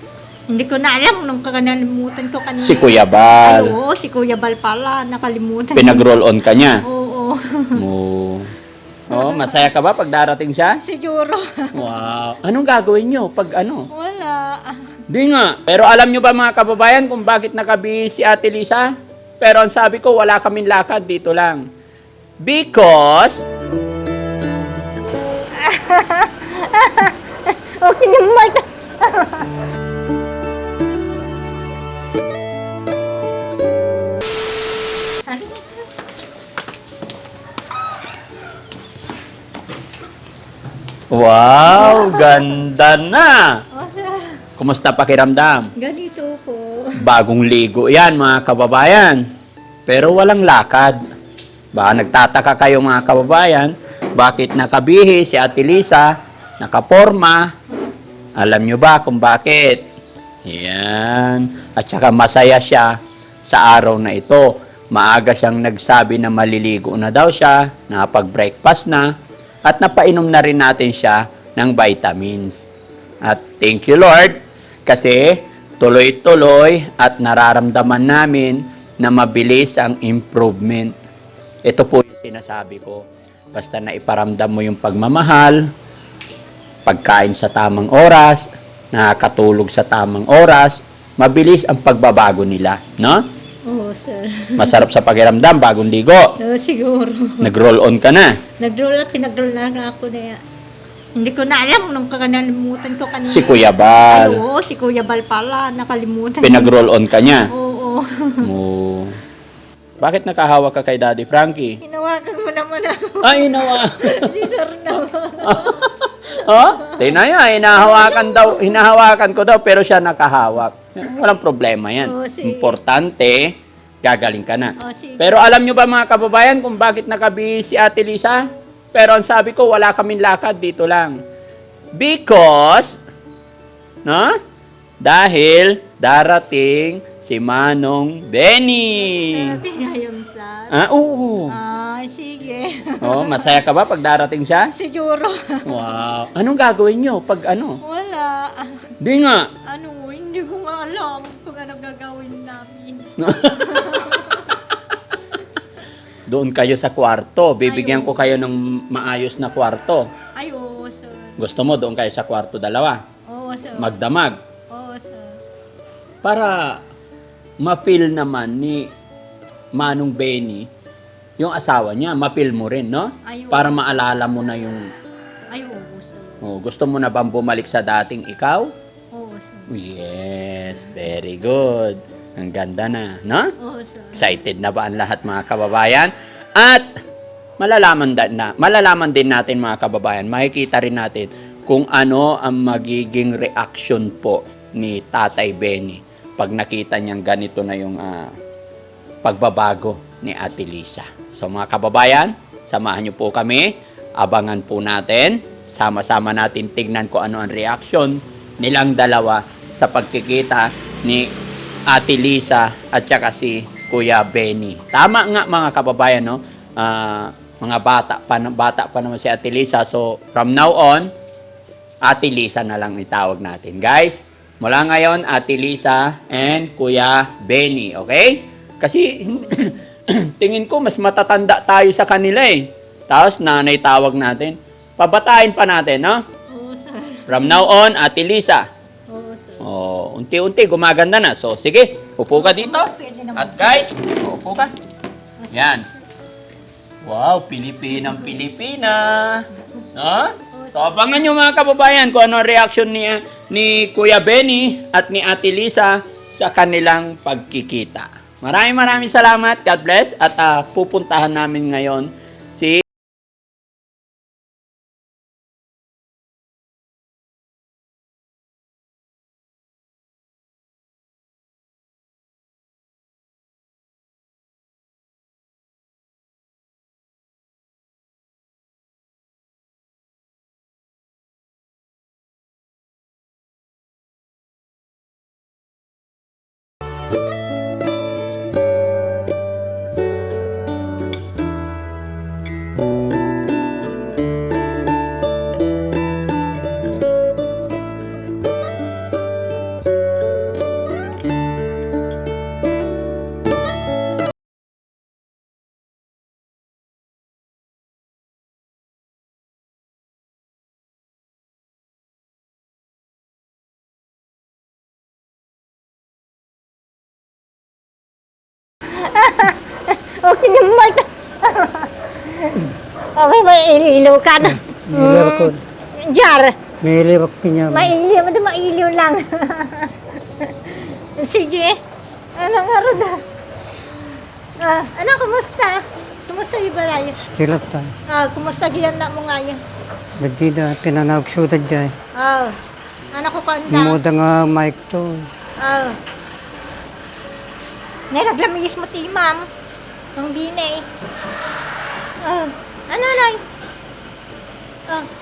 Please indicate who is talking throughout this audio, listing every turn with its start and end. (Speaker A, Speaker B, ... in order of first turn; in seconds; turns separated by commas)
Speaker A: 0.5-6.0, Speaker B: 2.6-3.7, Speaker B: 5.8-6.8, Speaker A: 6.8-7.8, Speaker B: 7.8-8.5, Speaker B: 9.1-10.8, Speaker A: 9.1-9.7, Speaker A: 10.8-11.8, Speaker B: 11.8-13.9, Speaker A: 13.9-15.0, Speaker B: 15.1-21.7, Speaker B: 22.4-23.5, Speaker A: 25.6-29.5, Speaker A: 35.3-35.9, Speaker B: 41.1-43.6, Speaker A: 41.7-42.5, Speaker A: 43.7-44.4, Speaker B: 44.6-45.7, Speaker A: 45.8-47.0, Speaker B: 47.0-49.3, Speaker B: 49.9-51.0, Speaker B: 51.8-57.5, Speaker B: 58.4-59.8, Speaker B: 60.5-69.1, Speaker B: 69.7-72.7, Speaker B: 73.2-81.0, Speaker B: 81.7-85.7, Speaker B: 86.9-93.2, Speaker A: 93.7-94.8, Speaker B: 94.6-96.3, Speaker A: 96.4-97.5, Speaker B: 97.4-98.4, Speaker A: 98.6-100.4, Speaker A: 101.2-106.7, Speaker B: 103.3-104.4, Speaker B: 106.4-107.5, Speaker A: 107.5-108.5, Speaker B: 108.4-109.2, Speaker B: 110.0-111.8, Speaker A: 111.8-115.8, Speaker B: 113.2-114.3, Speaker B: 115.4-131.2, Speaker A: 116.4-117.2, Speaker A: 117.7-118.8, Speaker A: 122.0-122.8, Speaker A: 124.8-125.6, Speaker B: 132.0-133.0, Speaker B: 134.1-134.4, Speaker B: 135.0-139.6, Speaker A: 139.0-140.7, Speaker B: 140.7-141.6, Speaker A: 141.5-143.6, Speaker B: 143.0-144.7, Speaker A: 144.7-145.9, Speaker B: 145.7-147.8, Speaker A: 147.8-148.9, Speaker B: 149.0-149.5, Speaker A: 149.7-154.5, Speaker B: 153.2-154.4, Speaker B: 156.3-160.1, Speaker A: 157.7-158.2, Speaker A: 160.4-161.4, Speaker B: 161.4-163.0, Speaker A: 163.3-164.0, Speaker B: 163.8-164.4, Speaker A: 164.7-165.4, Speaker B: 166.2-166.8, Speaker B: 167.6-168.9, Speaker B: 169.8-170.7, Speaker B: 171.4-174.9, Speaker A: 173.3-173.8, Speaker A: 175.5-176.4, Speaker B: 176.4-178.7, Speaker A: 179.1-179.7, Speaker B: 179.7-183.5, Speaker A: 183.6-184.3, Speaker B: 184.2-186.9, Speaker B: 187.6-198.3, Speaker B: 199.2-211.3, Speaker B: 211.9-221.1, Speaker B: 222.1-236.2, Speaker A: 236.5-237.5, Speaker B: 237.3-238.7, Speaker A: 239.1-239.7, Speaker B: 239.6-244.7, Speaker A: 242.3-243.9, Speaker A: 245.4-246.0, Speaker B: 245.5-245.8, Speaker B: 247.1-262.8, Speaker A: 250.5-251.2, Speaker A: 318.9-326.6, Speaker C: 324.4-325.6, Speaker C: 326.8-327.9, Speaker A: 327.7-331.8, Speaker A: 332.4-333.2, Speaker A: 334.6-337.2, Speaker C: 337.2-337.9, Speaker A: 338.1-339.6, Speaker C: 340.2-341.9, Speaker A: 342.2-342.6, Speaker A: 343.1-344.0, Speaker C: 343.7-345.3, Speaker A: 345.6-346.0, Speaker A: 348.1-349.5, Speaker A: 350.2-350.9, Speaker A: 352.2-353.4